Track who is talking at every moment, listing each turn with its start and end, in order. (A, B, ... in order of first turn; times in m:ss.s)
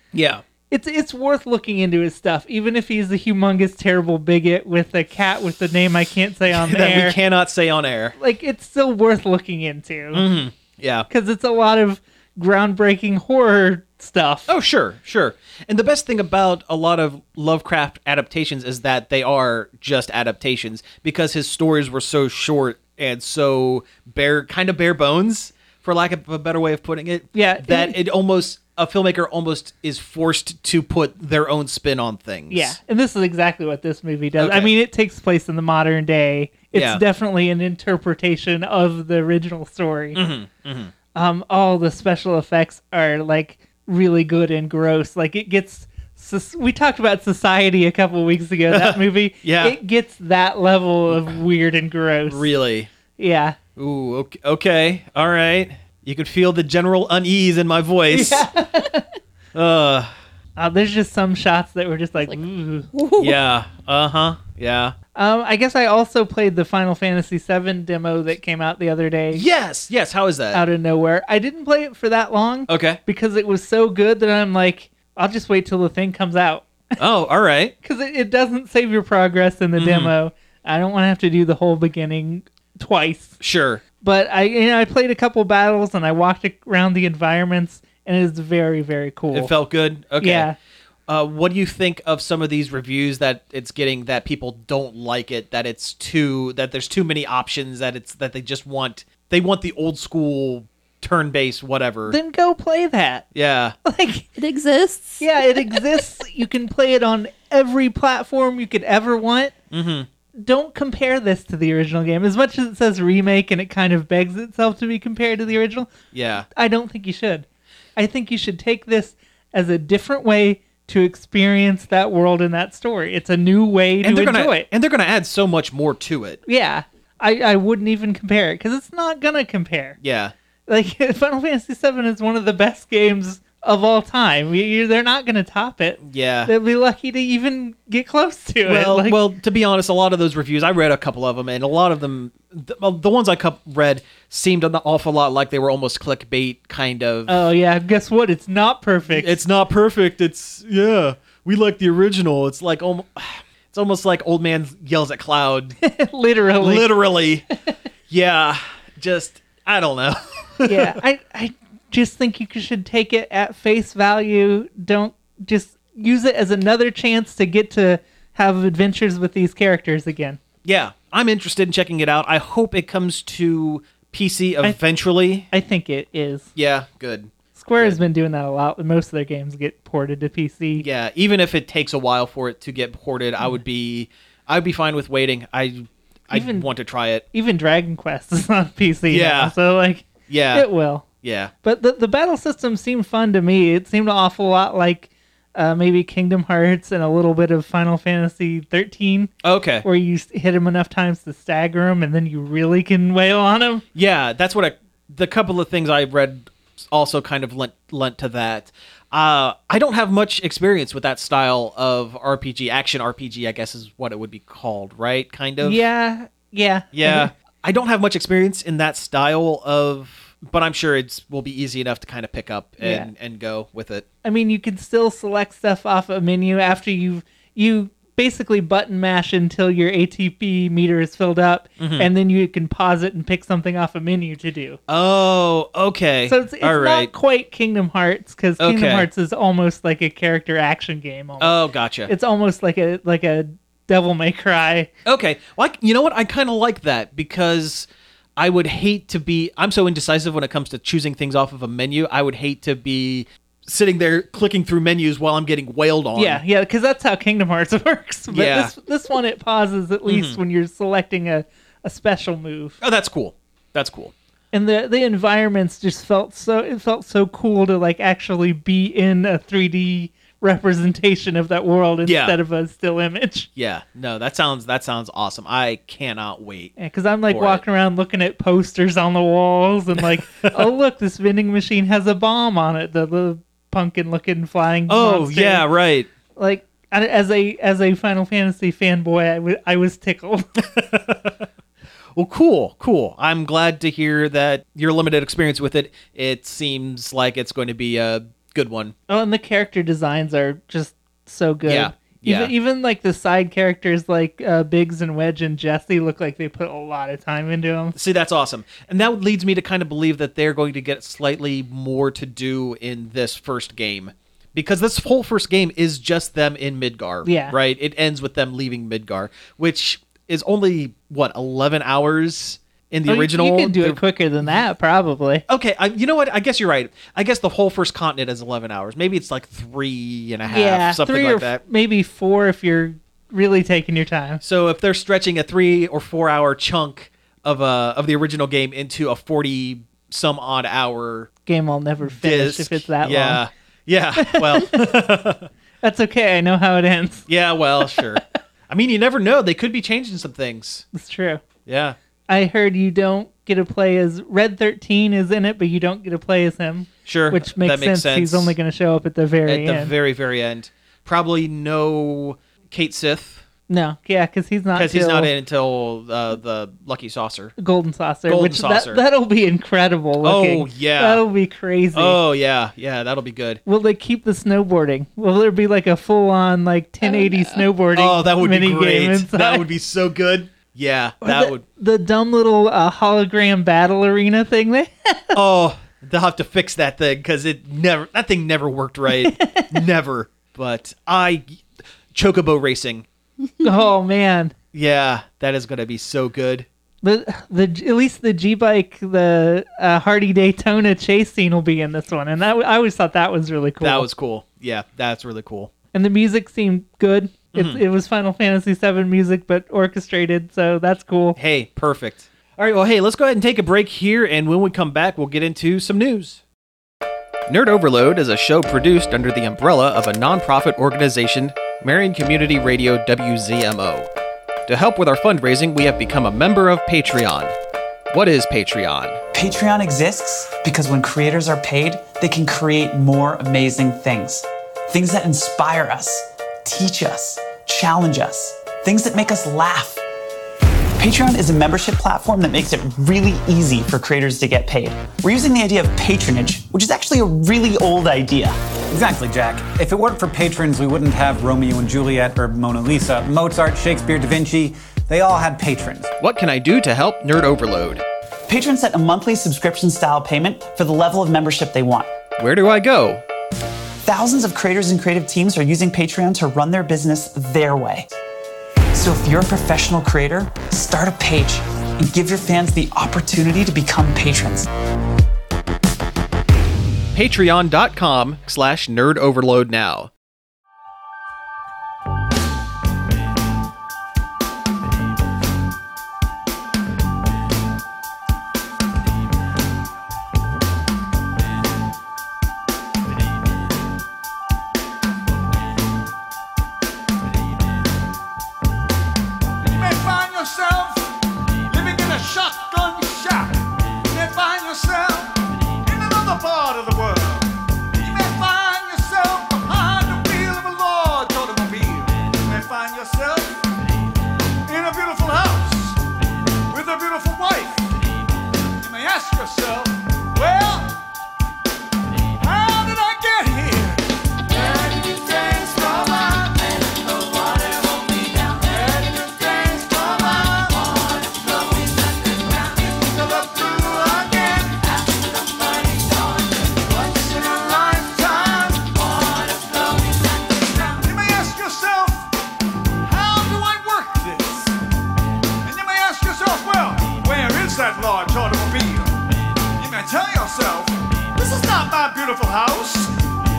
0:00.1-0:00.4 A
0:00.7-0:07.2 B
0:06.5-0:08.2 A
0:08.2-0:10.3 B
0:10.1-0:11.1 A
0:11.1-0:14.5 B
0:14.5-0:32.8 A
0:27.3-0:28.0 B
0:32.5-0:40.2 B
0:34.4-0:34.7 A
0:36.7-0:37.0 A
0:40.1-0:40.9 A
0:41.1-0:52.5 B
0:48.7-0:49.8 A
0:52.3-0:52.9 A
0:53.2-0:53.6 B
0:53.8-0:58.5 A
0:58.1-0:59.0 B
0:59.5-1:00.1 A
1:00.6-1:02.9 B
1:02.9-1:03.4 C
1:03.2-1:04.9 A
1:05.1-1:09.4 B
1:09.3-1:10.6 A
1:10.5-1:16.8 B
1:12.7-1:13.0 A
1:17.0-1:17.7 A
1:17.8-1:23.4 B
1:19.8-1:20.1 A
1:23.4-1:23.8 A
1:24.0-1:29.5 B
1:29.3-1:30.5 A
1:30.2-1:30.6 B
1:31.1-1:42.2 A
1:42.1-1:43.2 B
1:43.3-1:43.8 A
1:43.8-1:44.3 B
1:44.4-1:45.8 C
1:45.2-1:49.5 B
1:49.7-1:50.1 A
1:50.4-1:55.9 B
1:56.1-1:56.5 A
1:56.5-1:57.4 B
1:58.0-2:04.7 B
2:04.0-2:06.4 A
2:06.5-2:10.0 B
2:10.0-2:10.3 A
2:10.7-2:19.2 B
2:16.0-2:16.5 A
2:18.6-2:27.5 A
2:27.3-2:29.4 B
2:29.1-2:35.8 A
2:35.8-2:36.9 B
2:36.6-2:37.4 A
2:38.1-2:41.0 A
2:40.6-2:50.4 B
2:50.6-2:55.5 A
2:55.5-2:56.5 B
2:56.6-2:58.0 A
2:57.5-3:00.8 B
3:00.8-3:07.2 A
3:06.3-3:06.7 B
3:07.3-3:11.0 B
3:09.1-3:09.5 A
3:10.3-3:10.7 A
3:11.2-3:11.5 A
3:11.6-3:19.3 B
3:19.4-3:19.8 A
3:19.8-3:23.8 B
3:23.9-3:35.8 A
3:35.6-3:37.3 B
3:36.9-3:44.0 A
3:42.8-3:43.1 B
3:44.2-3:54.8 B
3:51.8-3:52.1 A
3:54.9-3:57.1 A
3:56.3-4:04.9 B
3:58.6-3:59.1 A
4:01.4-4:02.1 A
4:05.0-4:16.4 A
4:16.1-4:22.8 B
4:18.3-4:18.7 A
4:20.1-4:20.4 A
4:22.8-4:24.1 A
4:24.5-4:33.5 B
4:32.0-4:32.4 A
4:33.6-4:36.7 A
4:36.8-4:45.7 B
4:37.3-4:37.6 A
4:40.0-4:40.6 A
4:44.9-4:46.1 A
4:46.4-4:50.5 B
4:50.6-4:51.4 A
4:52.1-4:58.9 A
4:59.1-5:08.0 B
5:01.6-5:02.5 A
5:07.9-5:24.0 A
5:17.2-5:17.5 B
5:23.1-5:25.4 B
5:25.5-5:31.6 A
5:30.5-5:34.4 B
5:34.4-5:41.3 A
5:41.4-5:43.4 B
5:42.0-5:45.5 A
5:44.2-5:44.9 B
5:45.8-5:47.2 B
5:47.3-5:50.8 A
5:47.8-5:48.2 B
5:50.9-5:51.4 B
5:51.6-5:52.0 A
5:52.3-5:59.9 B
5:57.0-5:58.5 A
5:59.4-6:03.4 A
6:03.7-6:05.3 B
6:04.7-6:07.5 A
6:07.6-6:12.2 B
6:08.3-6:09.0 A
6:10.2-6:11.2 A
6:11.9-6:13.6 A
6:13.6-6:19.7 B
6:17.0-6:17.6 C
6:17.9-6:21.6 A
6:21.2-6:25.4 B
6:25.3-6:31.6 A
6:29.1-6:29.8 B
6:32.1-6:33.0 A
6:33.6-6:34.5 B
6:34.7-6:36.6 A
6:37.0-6:44.1 B
6:43.8-6:45.7 A
6:45.9-6:51.4 B
6:47.5-6:47.8 A
6:51.4-6:56.4 A
6:57.5-7:04.1 A
7:04.7-7:07.5 A
7:08.1-7:09.2 A
7:09.3-7:20.0 D
7:21.0-7:28.6 D
7:28.9-7:36.1 E
7:36.2-7:38.0 A
7:38.5-7:42.1 D
7:42.4-7:43.2 A
7:44.0-7:48.1 D
7:48.9-7:54.7 D
7:57.1-8:00.1 A
8:19.6-8:21.2 F
8:21.7-8:33.6 F
8:34.7-8:36.0 F
8:36.7-8:37.9 F
8:38.8-8:40.9 F
8:42.4-9:02.3 F
9:03.0-9:04.8 F
9:05.6-9:09.2 F
9:09.8-9:13.1 F